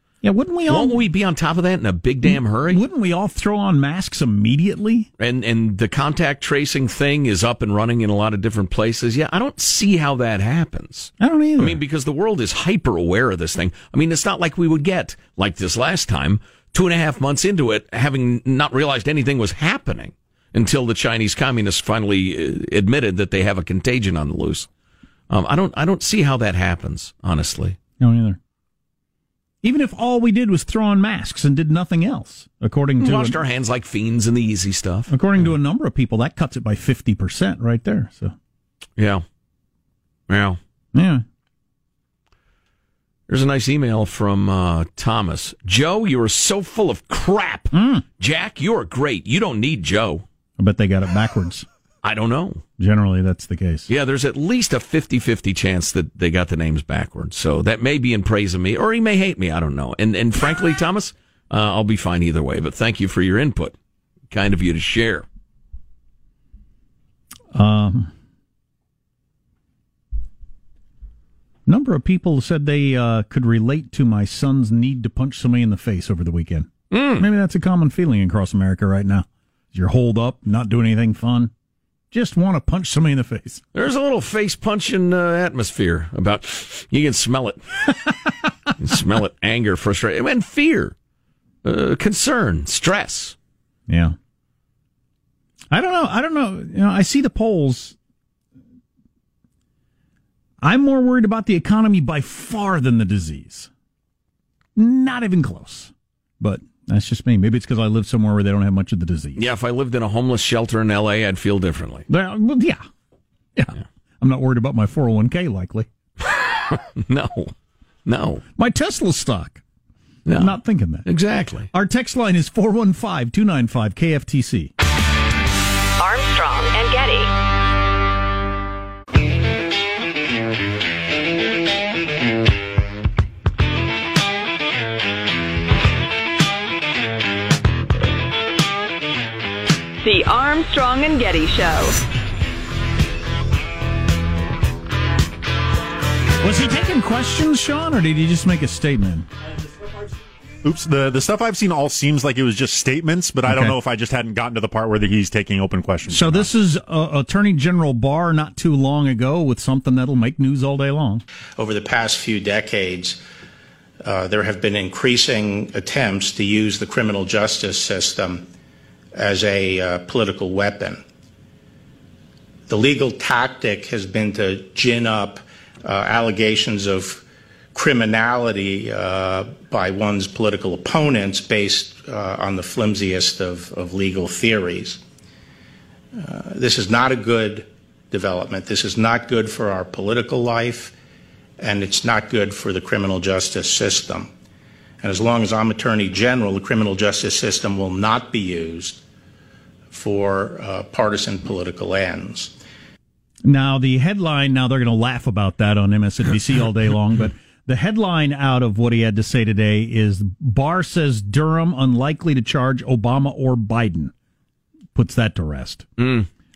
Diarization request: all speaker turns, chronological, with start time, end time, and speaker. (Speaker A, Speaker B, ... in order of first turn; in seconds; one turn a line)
Speaker A: 0.2-1.0
Speaker B: 0.7-2.8
Speaker A: 2.2-5.1
Speaker B: 5.2-24.7
Speaker A: 11.2-11.8
Speaker B: 25.3-27.8
Speaker A: 28.0-28.4
Speaker A: 29.6-33.4
Speaker B: 33.0-35.5
Speaker A: 35.1-38.4
Speaker B: 39.0-39.2
Speaker B: 40.3-40.6
Speaker A: 41.0-41.2
Speaker B: 43.3-50.2
Speaker A: 47.7-48.0
Speaker A: 50.6-51.7
Speaker B: 52.0-52.6
Speaker A: 52.8-53.9
Speaker B: 53.9-63.8
Speaker B: 64.3-65.3
Speaker A: 67.5-68.1
Speaker A: 71.7-81.5
Speaker B: 76.9-77.2
Speaker A: 82.1-83.6
Speaker B: 83.7-87.6
Speaker B: 88.8-91.0
Speaker B: 91.6-93.4
Speaker A: 93.9-94.2
Speaker A: 95.7-98.0
Speaker A: 100.6-103.7
Speaker A: 104.8-109.4
Speaker B: 109.4-112.1
Speaker A: 112.1-112.9
Speaker A: 113.6-115.9
Speaker B: 116.2-117.5
Speaker B: 118.1-118.4
Speaker A: 118.6-119.6
Speaker B: 120.2-121.7
Speaker A: 120.3-121.1
Speaker A: 121.7-124.7
Speaker C: 126.0-127.3
Speaker C: 140.0-142.0
Speaker A: 146.4-149.3
Speaker D: 150.6-156.5
Speaker A: 153.4-153.7
Speaker A: 156.1-161.2
Speaker E: 161.6-163.2
Speaker E: 164.0-168.4
Speaker E: 169.2-171.0
Speaker E: 172.7-185.0
Speaker E: 186.2-190.9
Speaker E: 191.6-194.3
Speaker E: 195.0-199.0
Speaker E: 199.9-202.5
Speaker A: 203.4-214.1
Speaker A: 214.9-215.9
Speaker B: 216.0-216.3